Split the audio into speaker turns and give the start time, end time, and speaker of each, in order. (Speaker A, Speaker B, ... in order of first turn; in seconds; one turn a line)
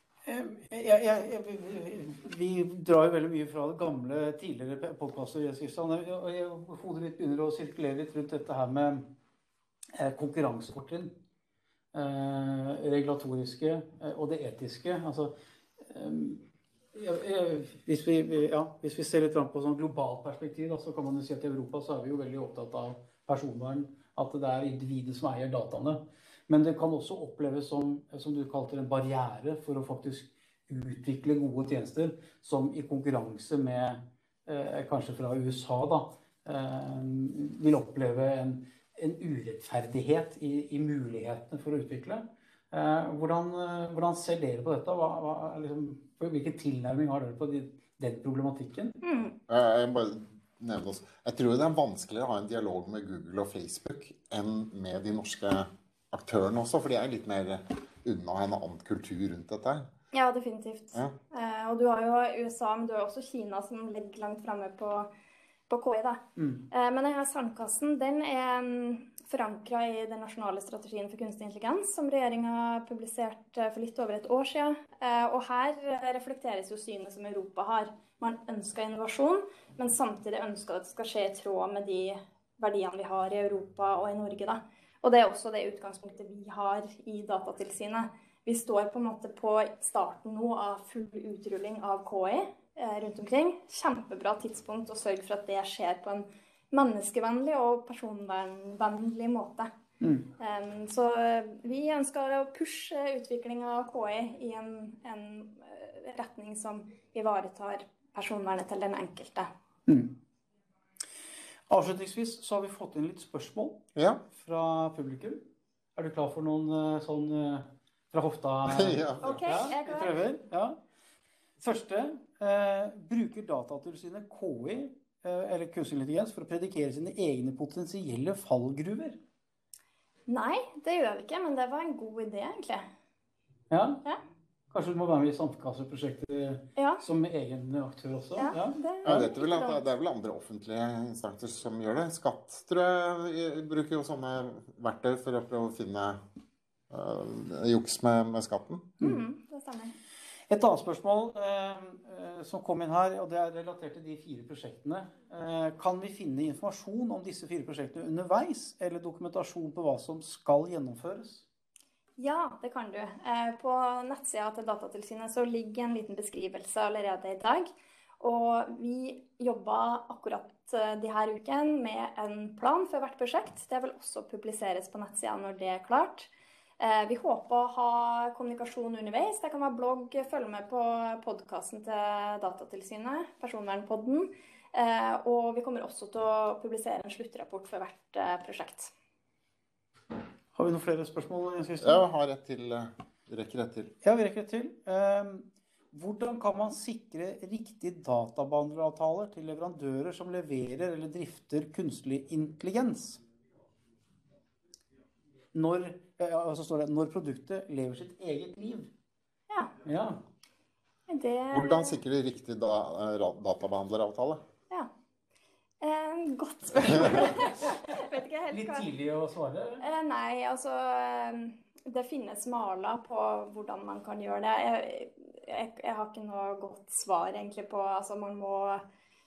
Speaker A: 0.2-9.1
Speaker A: 9.9-11.1
Speaker A: 11.9-49.0
Speaker B: 49.0-49.3
Speaker C: 49.5-59.9
Speaker B: 60.1-65.1
Speaker B: 65.7-99.7
Speaker A: 66.3-66.7
Speaker A: 100.0-100.3
Speaker B: 100.4-109.5
Speaker A: 109.9-110.1
Speaker A: 111.7-115.4
Speaker C: 114.0-114.2
Speaker A: 116.0-120.8
Speaker C: 118.7-119.6
Speaker B: 119.2-120.2
Speaker A: 121.6-129.2
Speaker B: 130.3-132.9
Speaker A: 133.7-134.0
Speaker A: 134.7-138.8
Speaker B: 136.8-137.0
Speaker B: 138.4-139.8
Speaker C: 139.0-146.2
Speaker C: 146.9-148.9
Speaker B: 149.0-149.9
Speaker A: 150.5-161.4
Speaker B: 162.2-188.9
Speaker A: 190.5-192.0
Speaker C: 191.8-193.9
Speaker A: 194.0-203.2
Speaker A: 205.5-208.9
Speaker A: 209.8-210.2
Speaker B: 211.1-212.0
Speaker C: 211.5-214.4
Speaker B: 215.8-218.9
Speaker A: 216.8-219.8
Speaker B: 219.8-228.8